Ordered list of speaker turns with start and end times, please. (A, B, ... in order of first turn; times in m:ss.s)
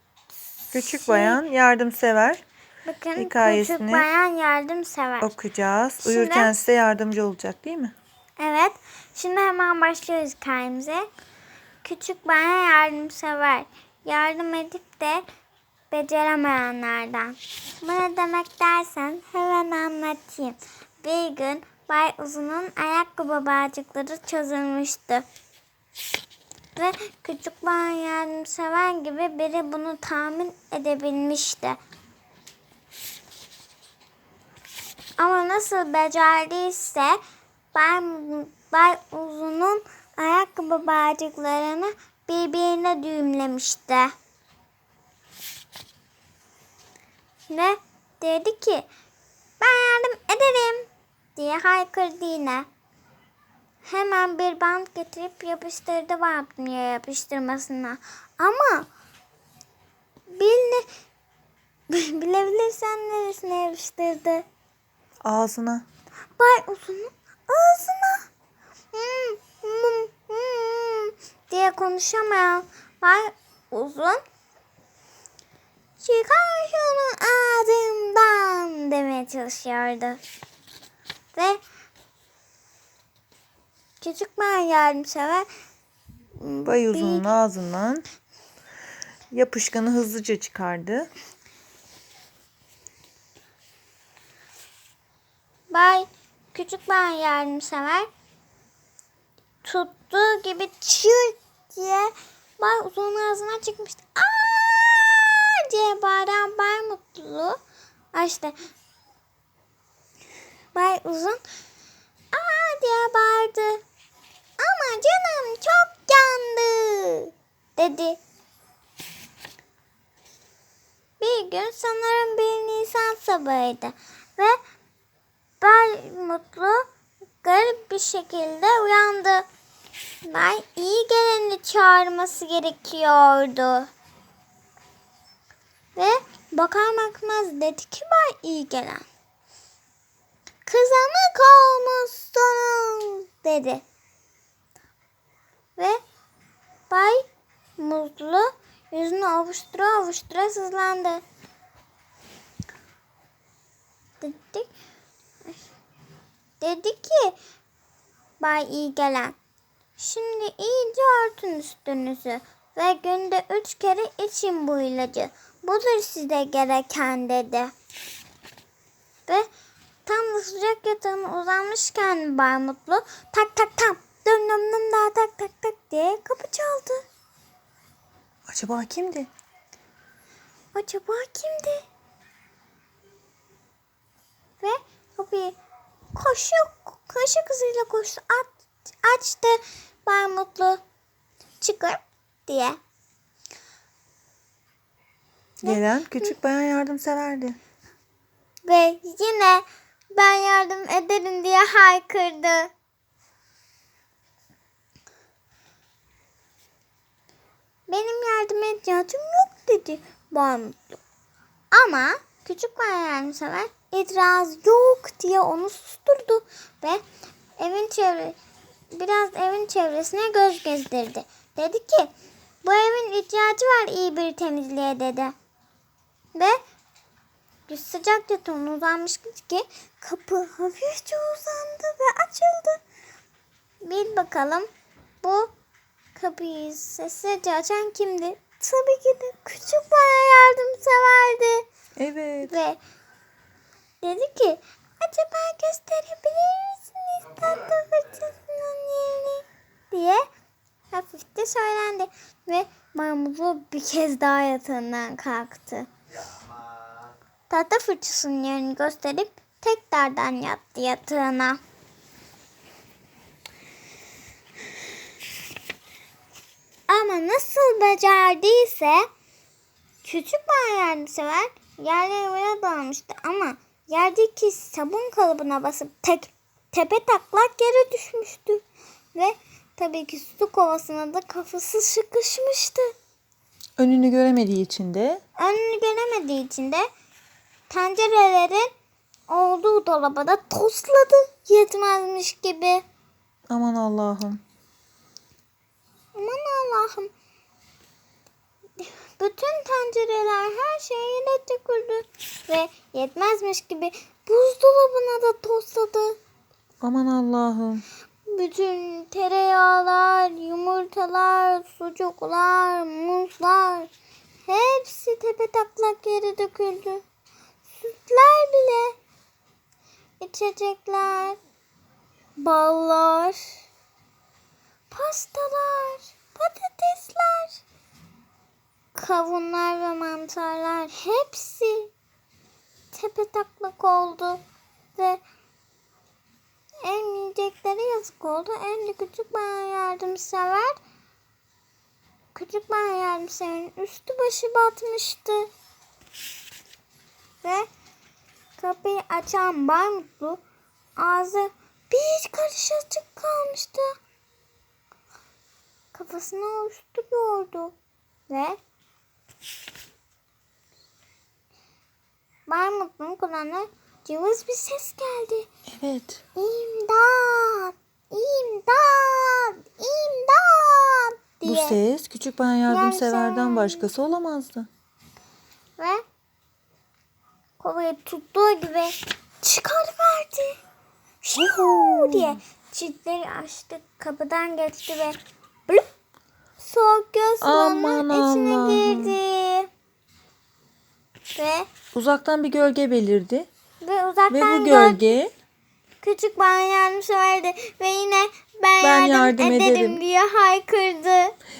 0:00.7-0:02.4 A
0:00.7-0:01.4 B
0:02.8-0:05.3 B
0:03.2-0:04.0 A
0:05.2-0:07.9 A
0:06.0-0:06.5 B
0:08.4-0:11.1 B
0:11.8-0:15.2 B
0:15.9-0:25.2 B
0:26.8-0:31.8 B
0:35.2-0:37.2 B
0:37.7-0:44.1 B
0:47.5-0:48.9 B
0:49.6-0:52.7 B
0:53.8-0:58.9 B
1:00.3-1:00.8 B
1:01.9-1:04.4 B
1:05.2-1:05.8 A
1:06.4-1:08.2 B
1:08.9-1:14.2 B
1:16.0-1:20.2 B
1:21.3-1:21.6 B
1:24.0-1:25.5 B
1:26.4-1:27.3 B
1:26.6-1:28.0 A
1:29.3-1:31.1 A
1:35.7-1:38.1 B
1:39.6-1:47.6 B
1:48.1-1:48.6 B
1:50.7-1:51.4 B
1:52.3-1:53.8 B
1:54.6-1:58.2 B
2:01.2-2:04.6 B
2:05.6-2:06.9 B
2:07.4-2:09.5 B
2:10.3-2:13.9 B
2:16.0-2:19.0 B
2:20.7-2:23.8 B
2:26.9-2:27.2 B
2:27.8-2:31.2 B
2:34.2-2:34.7 B
2:36.6-2:37.3 B
2:38.4-2:39.3 B
2:40.0-2:47.7 B
2:50.1-2:57.0 B
2:58.5-2:59.3 A
3:00.7-3:01.8 B
3:04.6-3:05.6 B
3:06.1-3:10.8 B
3:11.6-3:12.8 B
3:15.6-3:17.6 A
3:15.6-3:16.3 B
3:18.6-3:22.7 B
3:27.9-3:31.0 B
3:31.7-3:37.0 B
3:37.6-3:38.4 B
3:38.9-3:42.1 B
3:42.6-3:45.3 B
3:47.7-3:52.8 B
3:53.8-3:54.7 B
3:55.2-3:55.5 B
3:56.2-4:01.7 B
4:02.0-4:02.6 A
4:02.4-4:02.8 B
4:04.0-4:10.2 B
4:10.9-4:15.9 B
4:17.5-4:21.6 B
4:26.9-4:29.1 B
4:30.0-4:42.9 B
4:43.8-4:45.2 A
4:45.4-4:46.9 B
4:47.7-4:48.7 B
4:49.3-4:52.8 B
4:53.5-4:54.4 A
4:56.2-4:57.1 B
4:58.8-5:06.2 B
5:06.8-5:07.8 A
5:08.3-5:13.9 B
5:14.5-5:17.0 B
5:17.8-5:18.9 B
5:20.2-5:21.4 B
5:22.4-5:23.5 B
5:24.9-5:27.6 B
5:28.9-5:31.9 B
5:32.9-5:34.4 B
5:35.0-5:35.2 B
5:36.8-5:40.8 B
5:42.3-5:45.5 B
5:48.6-5:50.4 B
5:51.0-5:53.9 B
5:55.9-5:57.7 B
5:58.3-5:58.6 B
6:02.5-6:05.5 B
6:05.7-6:06.2 A
6:06.4-6:11.8 B
6:11.4-6:14.7 A
6:12.7-6:13.9 B
6:15.8-6:16.0 B
6:17.6-6:20.6 B
6:21.2-6:25.2 B
6:21.4-6:22.4 A
6:26.6-6:29.7 B
6:27.4-6:29.2 A
6:31.4-6:31.7 B
6:31.9-6:33.5 A
6:33.8-6:35.0 B
6:34.3-6:35.3 A
6:36.0-6:41.3 B
6:38.8-6:40.0 A